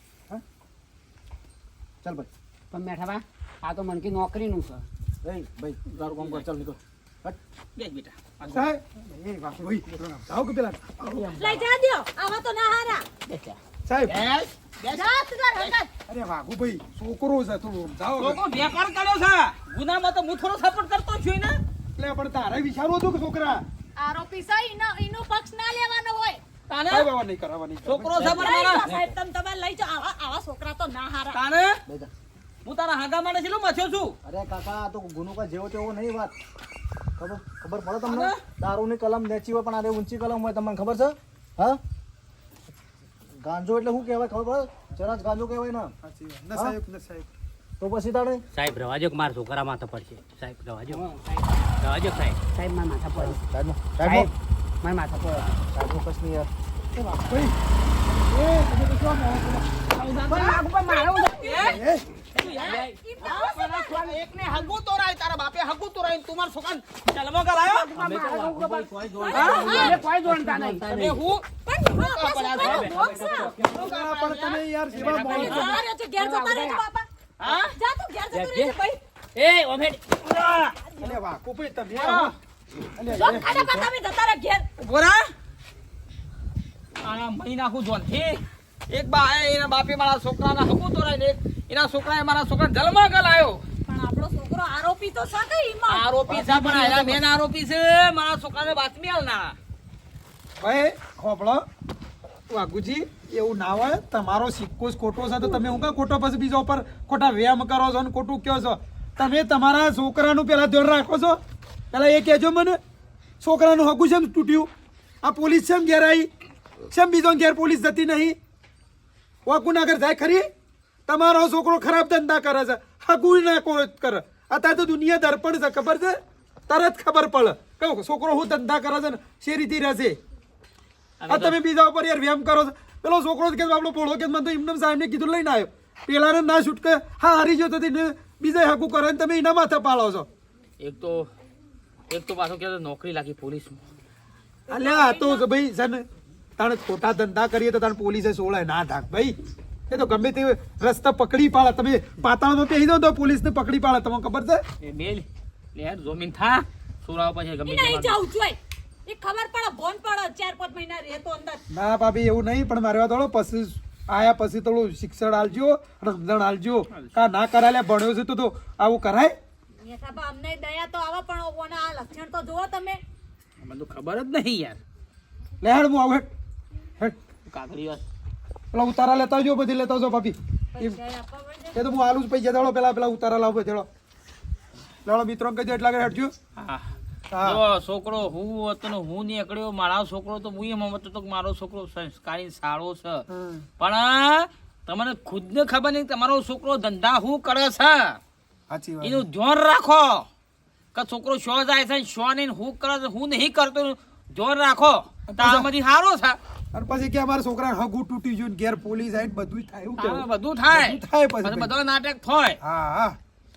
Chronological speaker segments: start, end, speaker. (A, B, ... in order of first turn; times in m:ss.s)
0:02.0-0:02.3 A
0:02.7-0:04.8 B
0:05.2-0:07.4 A
0:06.0-0:06.4 C
0:07.8-0:08.6 C
0:08.5-0:11.6 D
0:11.3-0:13.0 E
0:13.3-0:13.5 B
0:13.8-0:14.2 D
0:14.1-0:15.8 C
0:14.9-0:15.9 E
0:16.1-0:18.4 D
0:18.2-0:21.6 C
0:22.0-0:23.6 D
0:24.0-0:26.4 E
0:26.7-0:27.1 C
0:26.9-0:28.5 D
0:27.8-0:28.9 C
0:28.2-0:31.4 E
0:31.3-0:31.8 C
0:32.6-0:34.1 C
0:34.2-0:36.3 A
0:37.2-0:41.8 A
0:38.0-0:38.4 C
0:43.4-0:45.9 A
0:46.0-0:47.3 D
0:47.8-0:48.4 A
0:48.5-0:51.0 F
0:50.9-0:51.5 B
0:51.8-0:52.4 F
0:52.5-0:53.4 B
0:53.2-0:54.3 A
0:54.0-0:55.5 B
0:55.7-0:56.5 A
0:56.9-0:57.6 D
0:58.1-0:59.7 D
0:59.9-1:01.8 C
1:00.2-1:01.8 B
1:01.2-1:01.7 E
1:01.6-1:02.1 D
1:02.3-1:07.9 C
1:02.4-1:04.0 E
1:02.6-1:03.0 F
1:03.4-1:04.2 B
1:07.8-1:08.9 B
1:07.9-1:11.2 F
1:09.2-1:10.0 E
1:09.3-1:10.0 C
1:09.5-1:10.8 B
1:10.9-1:15.8 C
1:11.5-1:13.6 E
1:12.6-1:13.8 F
1:13.7-1:15.8 D
1:14.9-1:15.2 F
1:15.2-1:19.0 E
1:16.2-1:16.8 B
1:17.4-1:17.7 C
1:18.3-1:18.8 F
1:19.3-1:20.1 F
1:20.2-1:20.7 C
1:21.0-1:22.3 D
1:21.9-1:22.3 C
1:22.9-1:23.8 D
1:23.1-1:24.7 E
1:24.8-1:25.2 C
1:27.0-1:33.6 C
1:33.8-1:36.1 E
1:35.9-1:39.5 C
1:36.3-1:37.2 D
1:40.6-1:41.6 D
1:42.5-1:51.4 D
1:51.9-1:52.8 D
1:53.4-1:54.7 D
1:55.2-1:56.3 D
1:56.9-1:58.4 D
1:59.4-2:00.5 D
2:01.1-2:06.2 D
2:06.7-2:10.2 D
2:11.2-2:11.6 C
2:11.3-2:20.3 D
2:20.8-2:21.3 C
2:22.1-2:23.8 C
2:24.7-2:25.4 E
2:24.7-2:26.0 D
2:26.6-2:29.4 D
2:29.9-2:34.6 D
2:34.8-2:38.2 C
2:37.6-2:41.6 E
2:41.7-2:49.4 D
2:49.8-2:53.0 E
2:53.6-2:54.8 C
2:55.6-2:56.3 D
2:57.4-2:58.0 C
2:58.7-3:01.0 D
3:00.7-3:01.8 E
3:01.7-3:03.9 D
3:05.0-3:06.3 D
3:06.6-3:06.9 C
3:07.3-3:07.6 D
3:07.4-3:13.2 C
3:13.3-3:13.6 D
3:13.8-3:18.2 C
3:18.7-3:19.2 D
3:19.0-3:20.3 C
3:20.9-3:26.4 C
3:25.3-3:25.7 D
3:26.7-3:31.7 D
3:30.0-3:32.6 C
3:32.6-3:33.2 D